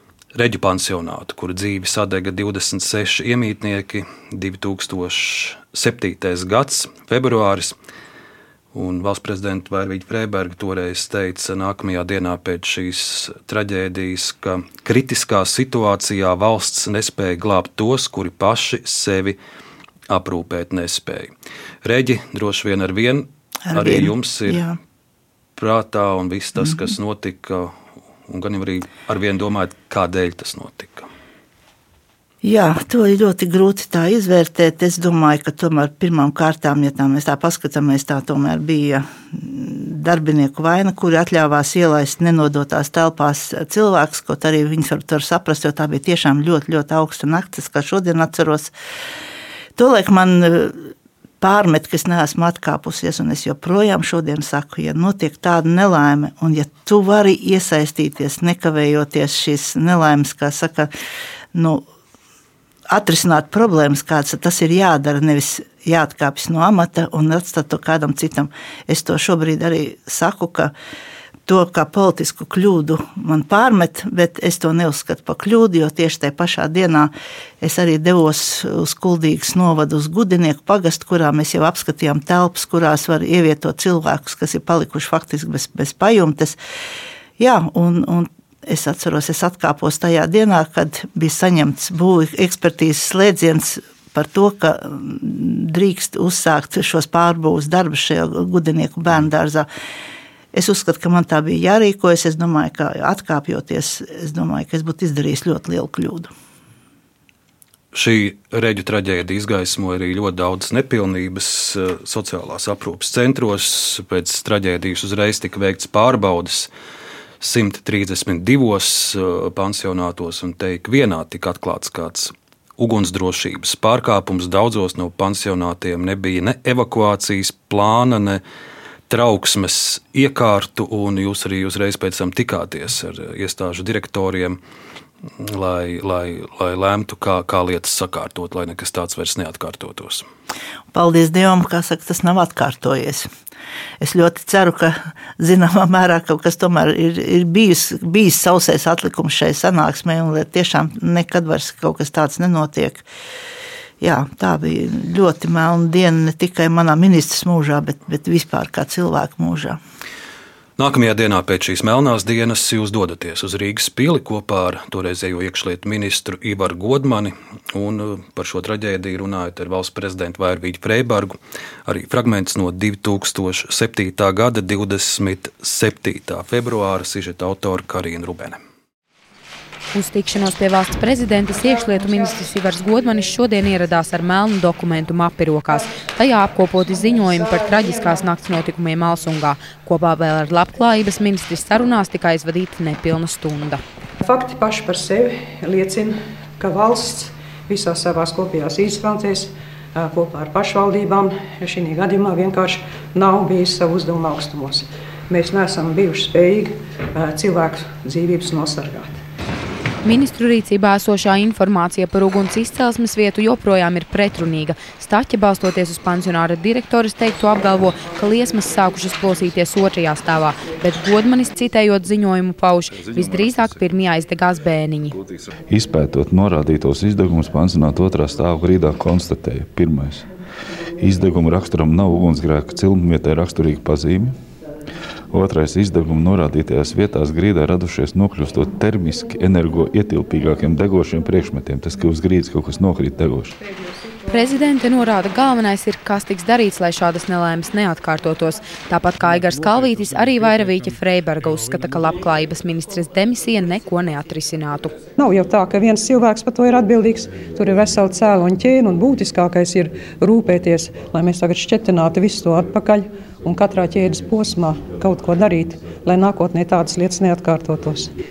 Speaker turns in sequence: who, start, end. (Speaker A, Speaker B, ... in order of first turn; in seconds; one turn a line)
Speaker A: 0.3-7.8
Speaker A: 8.7-19.4
Speaker A: 20.1-21.3
Speaker A: 21.8-24.6
Speaker B: 23.7-24.8
Speaker A: 25.6-27.7
Speaker A: 28.2-31.1
Speaker B: 32.4-48.7
Speaker B: 49.8-60.9
Speaker B: 61.5-61.8
Speaker B: 62.9-70.7
Speaker B: 71.5-77.1
Speaker B: 77.6-86.6
Speaker B: 87.4-99.7
Speaker B: 100.5-106.3
Speaker A: 107.9-116.7
Speaker A: 117.4-128.4
Speaker A: 129.1-134.6
Speaker A: 135.3-140.2
Speaker B: 140.9-143.3
Speaker B: 144.0-153.0
Speaker B: 154.0-159.8
Speaker A: 160.8-178.6
Speaker C: 179.9-193.8
Speaker D: 181.6-183.3
Speaker D: 186.9-188.2
Speaker D: 194.2-209.2
Speaker C: 210.0-225.2
Speaker E: 222.9-223.9
Speaker E: 225.1-230.2
Speaker E: 231.0-234.3
Speaker E: 235.3-243.5
Speaker D: 243.7-244.0
Speaker C: 244.3-254.9
Speaker D: 255.2-268.1